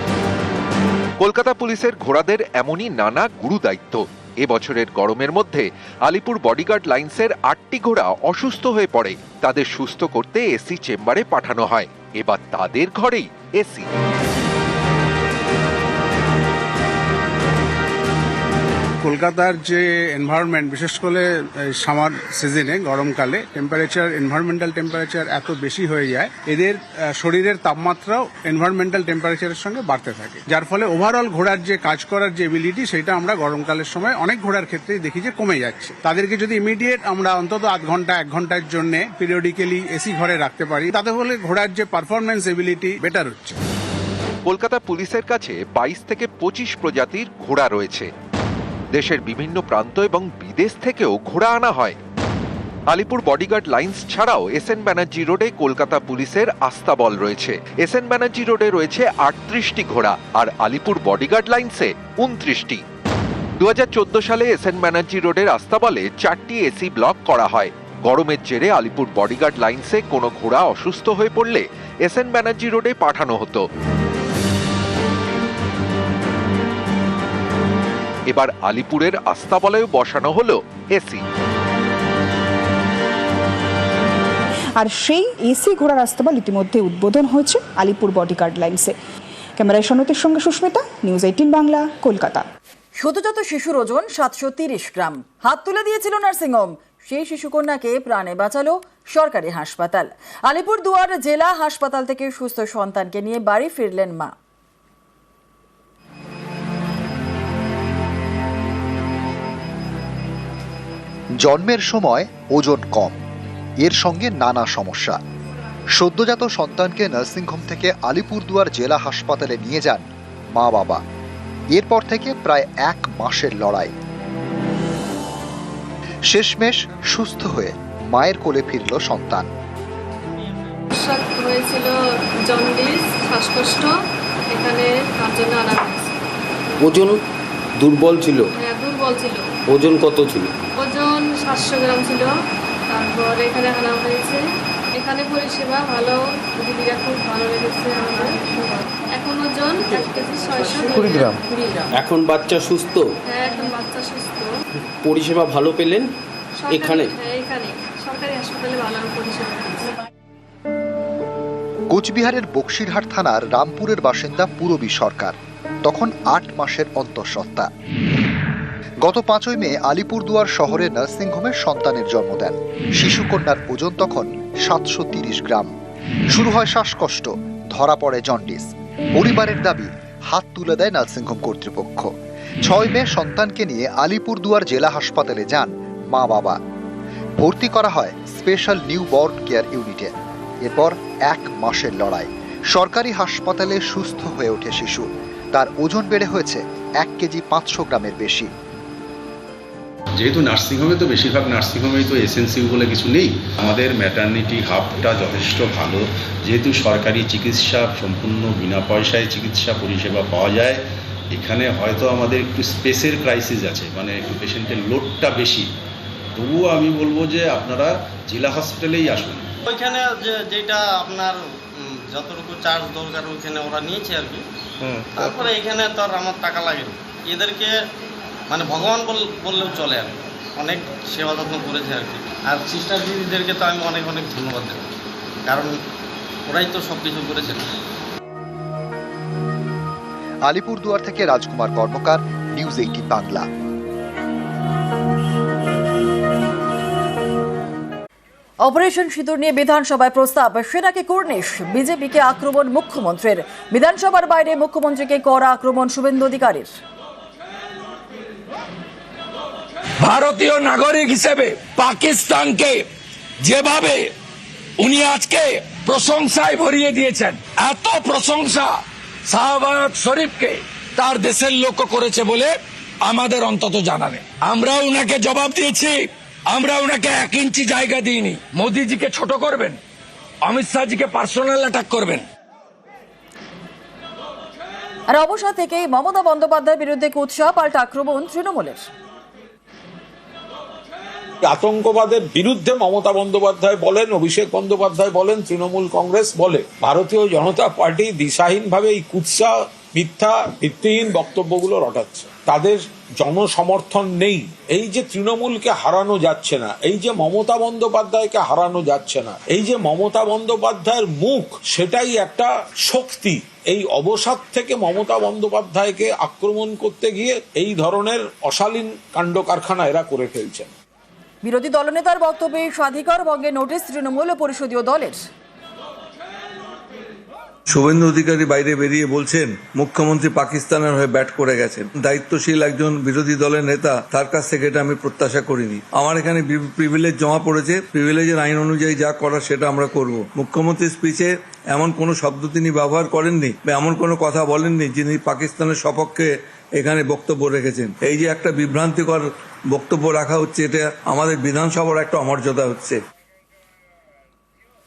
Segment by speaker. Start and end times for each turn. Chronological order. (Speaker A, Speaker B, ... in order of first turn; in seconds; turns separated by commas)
Speaker A: 1.2-13.9, Speaker B: 19.0-43.6, Speaker A: 44.5-48.1, Speaker A: 48.9-52.0, Speaker A: 52.9-62.8, Speaker A: 63.6-73.6, Speaker A: 78.3-81.2, Speaker C: 84.8-88.9, Speaker C: 89.6-92.5, Speaker D: 93.0-104.3, Speaker E: 111.4-113.2, Speaker E: 113.8-115.2, Speaker E: 116.0-121.0, Speaker E: 121.7-123.9, Speaker E: 126.3-129.5, Speaker F: 130.9-131.9, Speaker F: 132.5-133.9, Speaker F: 134.5-136.2, Speaker G: 136.8-137.2, Speaker G: 137.8-138.5, Speaker F: 138.6-139.4, Speaker G: 139.7-140.6, Speaker F: 140.8-142.3, Speaker F: 142.9-144.4, Speaker F: 145.0-151.6, Speaker G: 150.9-151.3, Speaker G: 151.9-153.1, Speaker F: 153.3-154.5, Speaker G: 155.0-156.1, Speaker F: 156.6-159.9, Speaker G: 156.7-157.1, Speaker E: 161.9-167.7, Speaker E: 169.0-175.7, Speaker E: 176.3-182.1, Speaker E: 182.6-186.6, Speaker E: 187.4-190.1, Speaker E: 190.6-198.5, Speaker H: 200.2-215.7, Speaker H: 216.4-219.5, Speaker I: 219.7-224.4, Speaker H: 224.8-225.5, Speaker I: 225.1-227.8, Speaker I: 228.5-234.9, Speaker I: 235.5-235.8, Speaker I: 236.5-237.8, Speaker E: 240.5-243.5, Speaker D: 248.7-256.7, Speaker J: 260.0-262.9, Speaker J: 263.4-264.1, Speaker J: 264.8-279.8, Speaker J: 280.4-282.2, Speaker D: 285.1-288.9, Speaker K: 291.5-320.7, Speaker D: 321.4-325.2, Speaker L: 327.7-353.0